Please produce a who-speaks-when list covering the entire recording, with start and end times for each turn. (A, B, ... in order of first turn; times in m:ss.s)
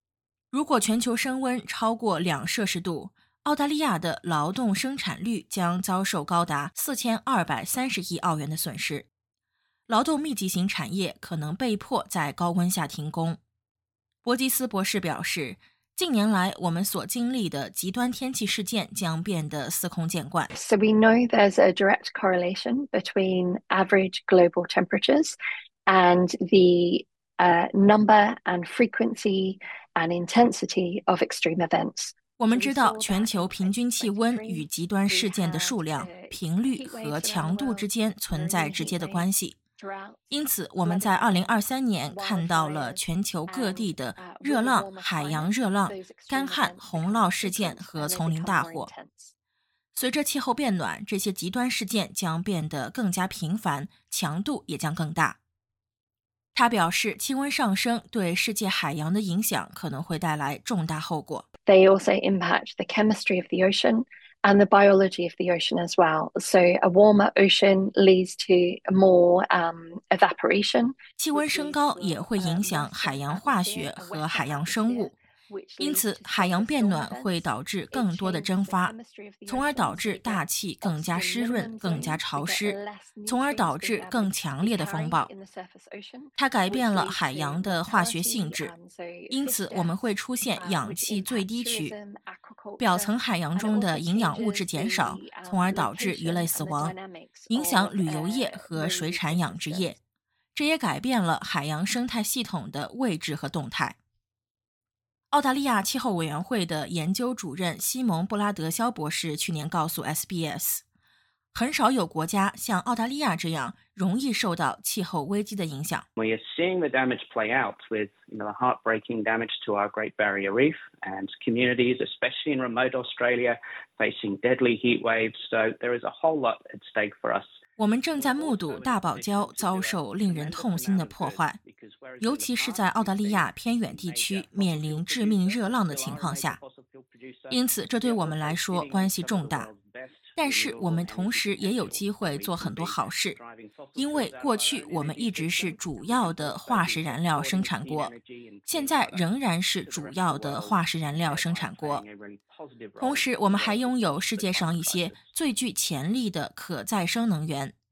0:00.5-0:09.1 A
0:09.9-0:13.4 A
0:14.2-0:20.5 A
0:20.5-0:49.3 B
0:32.4-0:39.6 A
0:40.3-0:48.9 A
0:49.9-0:55.4 A
0:56.5-1:01.4 A
1:01.6-1:39.9 B
1:11.2-1:15.2 A
1:15.8-1:18.9 A
1:19.5-1:25.3 A
1:26.4-1:28.7 A
1:29.3-1:31.9 A
1:32.8-1:36.9 A
1:37.5-1:40.0 A
1:40.5-1:44.0 A
1:45.3-1:50.8 A
1:51.5-1:56.0 A
1:56.2-2:07.5 C
2:07.8-2:11.6 A
2:08.1-2:29.3 C
2:12.2-2:16.6 A
2:17.5-2:19.7 A
2:20.4-2:23.4 A
2:24.0-2:28.1 A
2:28.7-2:32.0 A
2:29.8-2:35.2 C
2:33.0-2:37.7 A